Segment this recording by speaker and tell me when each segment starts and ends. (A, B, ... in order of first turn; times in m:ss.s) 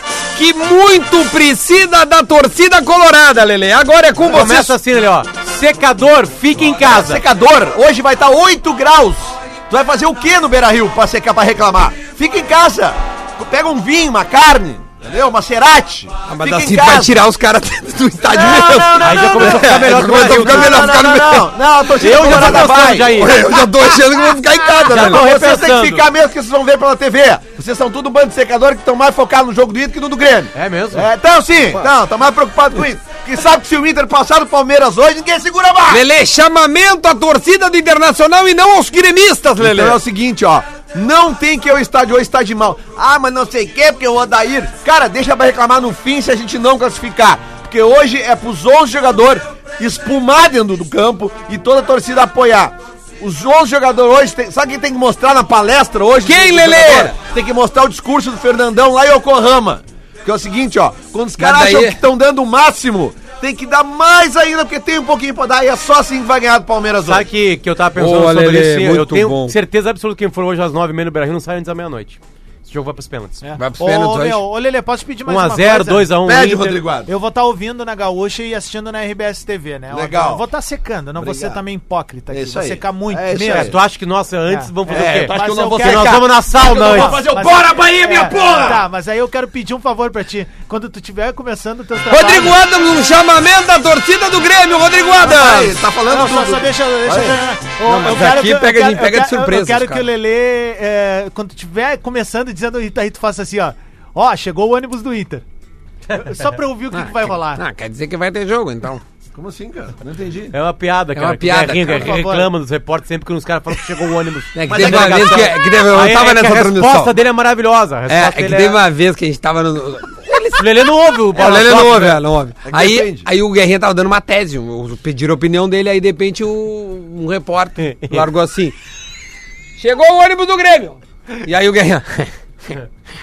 0:00.3-0:04.7 A
0:04.2-0:07.2 B
0:06.6-0:17.1 C
0:16.2-0:21.5 A
0:18.2-0:36.0 C
0:19.0-0:21.0 B
0:21.9-0:23.4 B
0:22.2-0:25.3 A
0:24.8-0:26.1 B
0:30.5-0:31.1 B
0:35.9-0:40.0 A
0:39.6-1:07.2 C
0:56.2-0:57.2 A
1:01.4-1:02.0 A
1:07.0-1:13.4 B
1:07.9-1:09.6 A
1:13.4-1:16.1 D
1:13.6-1:14.4 A
1:15.2-1:16.8 B
1:16.2-1:17.1 C
1:17.0-1:23.7 D
1:19.9-1:20.4 C
1:21.2-1:21.6 C
1:22.3-1:23.8 C
1:23.4-1:27.2 B
1:24.5-1:32.6 D
1:24.9-1:28.8 C
1:32.1-1:35.8 A
1:35.2-1:37.4 C
1:36.1-1:45.4 D
1:37.8-1:40.1 A
1:46.1-1:46.4 B
1:46.1-1:47.6 D
1:46.9-1:49.0 A
1:49.3-1:50.5 C
1:50.5-1:58.8 B
1:51.1-1:52.2 A
1:51.8-1:52.5 D
1:54.5-1:57.1 A
1:54.7-1:55.5 C
1:58.1-2:00.7 A
2:00.5-2:02.2 B
2:01.3-2:08.7 A
2:02.6-2:03.3 C
2:07.8-2:08.3 B
2:09.8-2:12.8 A